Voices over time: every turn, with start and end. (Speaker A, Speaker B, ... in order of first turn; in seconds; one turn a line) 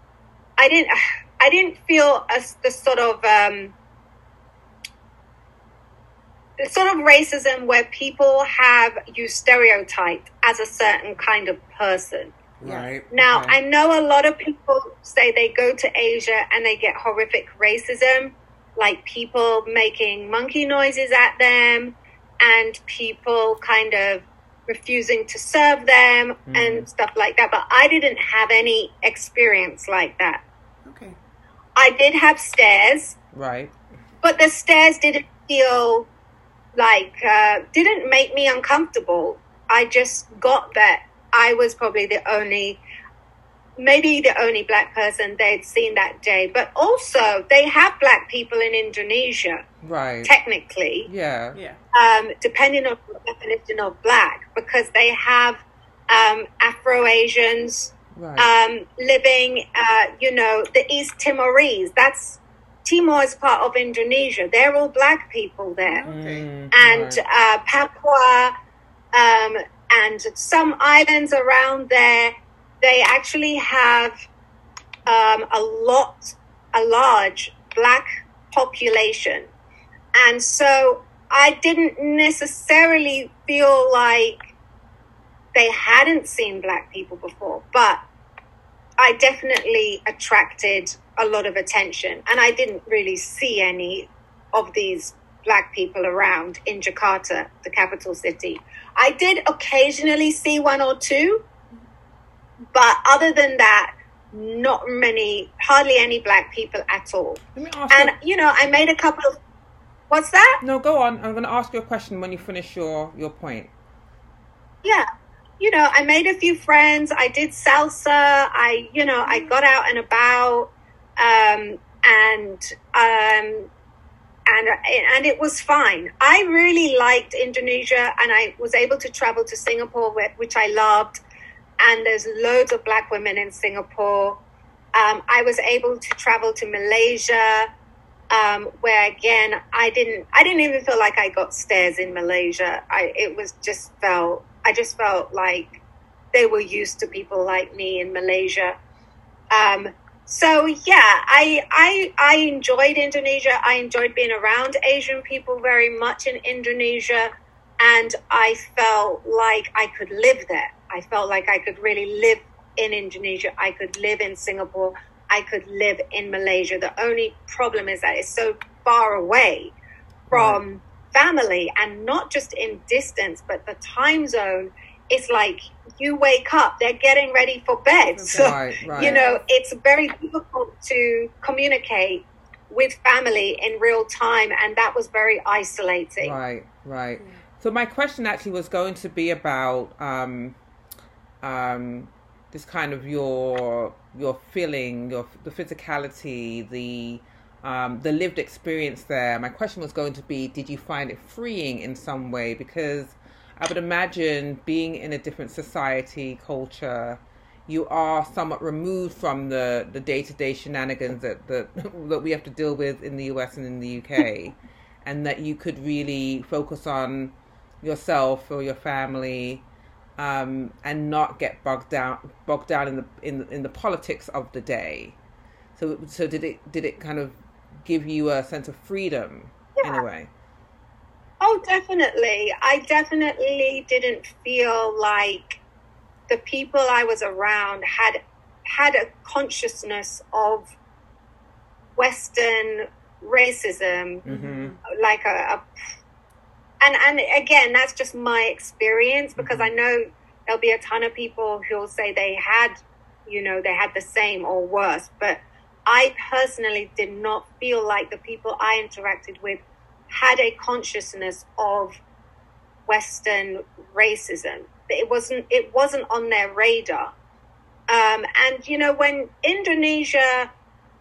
Speaker A: 0.6-3.7
Speaker A: 6.6-12.3
Speaker B: 12.6-13.6
Speaker C: 12.6-12.9
Speaker A: 13.1-30.4
Speaker B: 26.5-26.9
Speaker C: 30.8-31.2
Speaker A: 31.8-33.2
Speaker B: 33.3-33.7
Speaker A: 34.2-36.1
Speaker A: 36.8-42.8
Speaker A: 43.8-49.6
Speaker B: 49.8-50.3
Speaker A: 50.2-51.1
Speaker B: 51.1-51.6
Speaker C: 51.5-51.8
Speaker A: 51.9-66.0
Speaker B: 58.1-58.5
Speaker C: 65.8-66.5
Speaker B: 66.1-67.2
Speaker A: 66.7-68.5
Speaker A: 69.1-74.2
Speaker A: 75.0-79.5
Speaker A: 80.2-84.4
Speaker A: 85.5-88.0
Speaker A: 89.0-101.4
Speaker A: 102.7-109.4
Speaker B: 107.5-108.1
Speaker A: 110.1-110.6
Speaker B: 110.6-113.7
Speaker A: 115.6-123.7
Speaker C: 119.2-119.5
Speaker A: 124.5-131.2
Speaker A: 131.8-134.4
Speaker A: 134.9-137.7
Speaker A: 138.3-145.8
Speaker A: 146.3-148.8
Speaker A: 149.5-169.7
Speaker B: 170.3-170.6
Speaker A: 170.3-186.3
Speaker C: 178.1-179.4
Speaker B: 178.3-179.2
Speaker B: 186.2-190.6
Speaker B: 191.4-219.7
Speaker B: 220.2-225.2
Speaker B: 225.8-230.3
Speaker A: 229.8-230.0
Speaker A: 231.4-235.6
Speaker A: 236.3-240.7
Speaker A: 242.0-244.2
Speaker B: 244.2-244.7
Speaker C: 244.3-244.8
Speaker A: 244.8-245.6
Speaker A: 246.8-262.0
Speaker B: 249.4-249.7
Speaker A: 262.9-267.1
Speaker A: 267.9-270.5